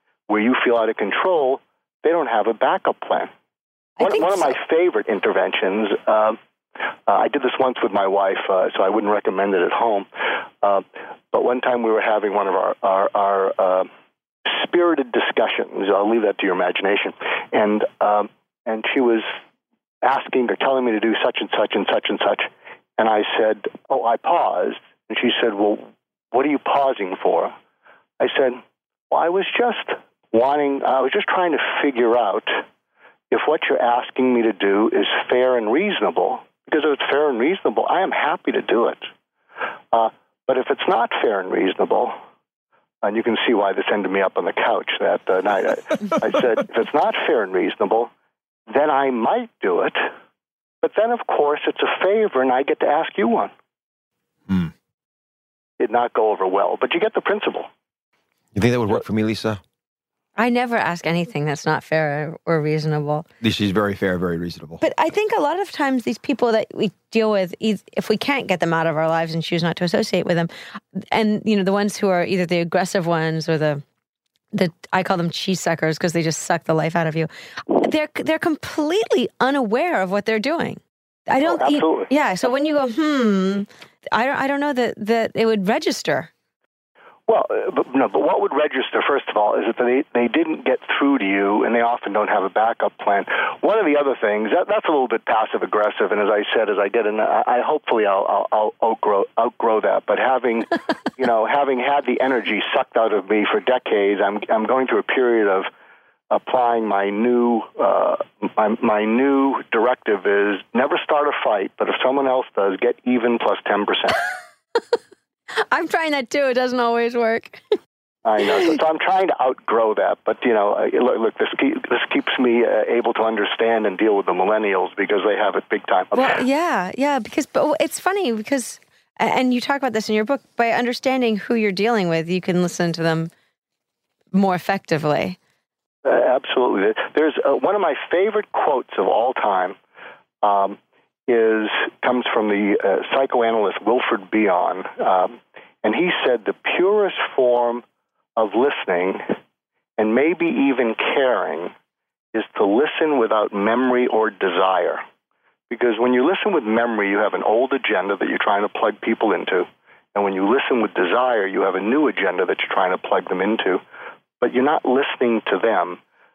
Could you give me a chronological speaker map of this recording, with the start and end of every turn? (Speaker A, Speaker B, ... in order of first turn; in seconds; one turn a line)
Speaker A: 0.3-3.3
Speaker B: 4.0-4.5
Speaker A: 4.0-6.4
Speaker A: 7.1-10.1
Speaker A: 10.6-13.9
Speaker A: 14.4-19.3
Speaker A: 20.0-27.5
Speaker A: 28.2-28.6
Speaker A: 29.1-32.6
Speaker A: 33.3-39.0
Speaker A: 39.9-42.1
Speaker A: 43.0-48.1
Speaker A: 48.7-50.1
Speaker A: 50.8-53.5
Speaker A: 55.8-57.7
Speaker C: 58.5-59.6
Speaker B: 60.4-63.2
Speaker C: 63.4-64.8
Speaker B: 64.8-73.8
Speaker B: 74.5-86.3
Speaker A: 81.4-82.1
Speaker A: 87.3-105.7
Speaker A: 106.3-114.2
Speaker B: 115.7-117.6
Speaker A: 118.2-126.1
Speaker B: 118.5-118.8
Speaker B: 126.1-133.3
Speaker B: 134.3-135.4
Speaker A: 136.0-139.8
Speaker A: 140.4-147.8
Speaker A: 148.4-149.2
Speaker A: 150.0-151.7
Speaker A: 152.3-155.0
Speaker A: 155.7-163.8
Speaker A: 164.4-166.0